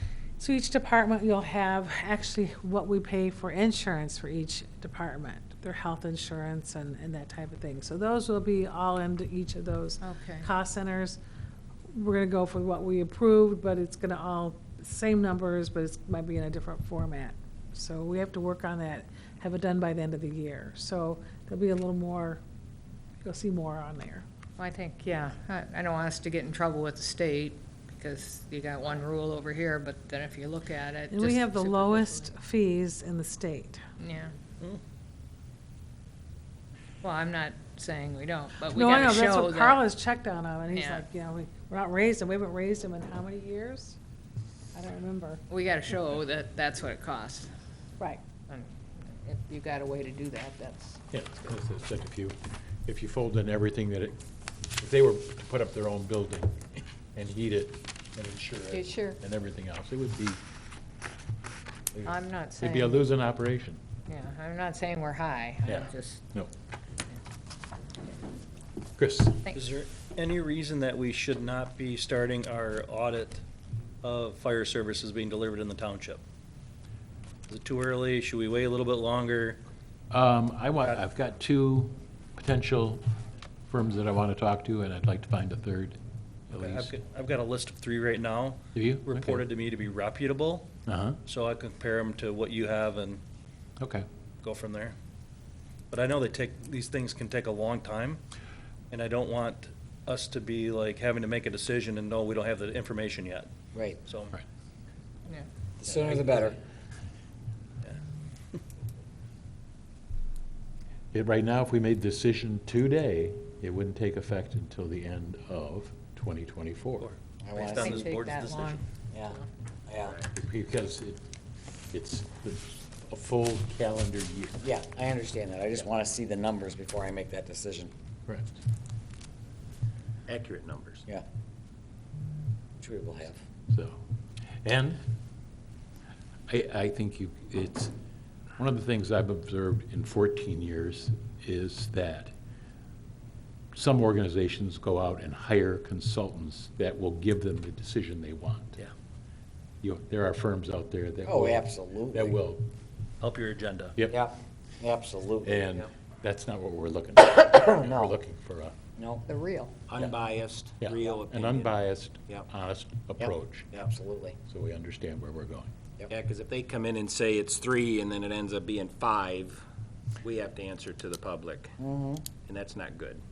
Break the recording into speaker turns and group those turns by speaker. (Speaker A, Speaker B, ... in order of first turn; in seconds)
Speaker A: 0.4-11.2, 11.9-22.4, 23.2-24.2, 31.1-33.8, 38.7-44.0, 44.7-45.4
Speaker B: 10.0-10.5, 24.6-32.4, 34.0-34.3, 37.0-39.9, 40.7-41.1, 45.5-47.5, 48.5-51.0, 58.7-59.2, 62.0-63.1, 64.0-66.3, 69.4-69.7, 117.8-119.4, 159.3-159.8
Speaker C: 51.1-54.2, 54.8-60.4, 62.6-63.8, 65.7-66.5, 69.0-69.4, 80.1-83.0, 83.7-86.0, 86.5-86.9, 88.7-89.4, 90.9-91.2, 93.8-94.1, 111.1-117.1, 120.3-121.2, 121.9-124.6, 133.7-134.0, 134.6-135.0, 136.5-137.9, 138.6-142.3, 143.7-148.8, 149.8-152.7, 155.4-158.8, 160.8-163.7, 164.5-165.7
Speaker D: 69.5-73.4, 74.0-76.2, 77.5-79.6, 86.5-90.7, 91.3-93.2, 94.4-95.0, 95.9-98.2, 98.9-103.5, 104.0-104.3, 106.0-106.5, 117.0-118.9, 153.2-154.0
Speaker E: 103.7-104.0, 105.8-106.6, 117.4-118.0, 119.1-120.2, 124.6-127.9, 132.8-133.4, 151.2-152.4, 154.1-155.9, 157.6-158.2, 159.0-159.2, 163.2-164.4, 171.8-172.3
Speaker F: 130.3-131.0, 159.9-161.7, 166.1-169.6, 170.2-171.8, 172.3-173.2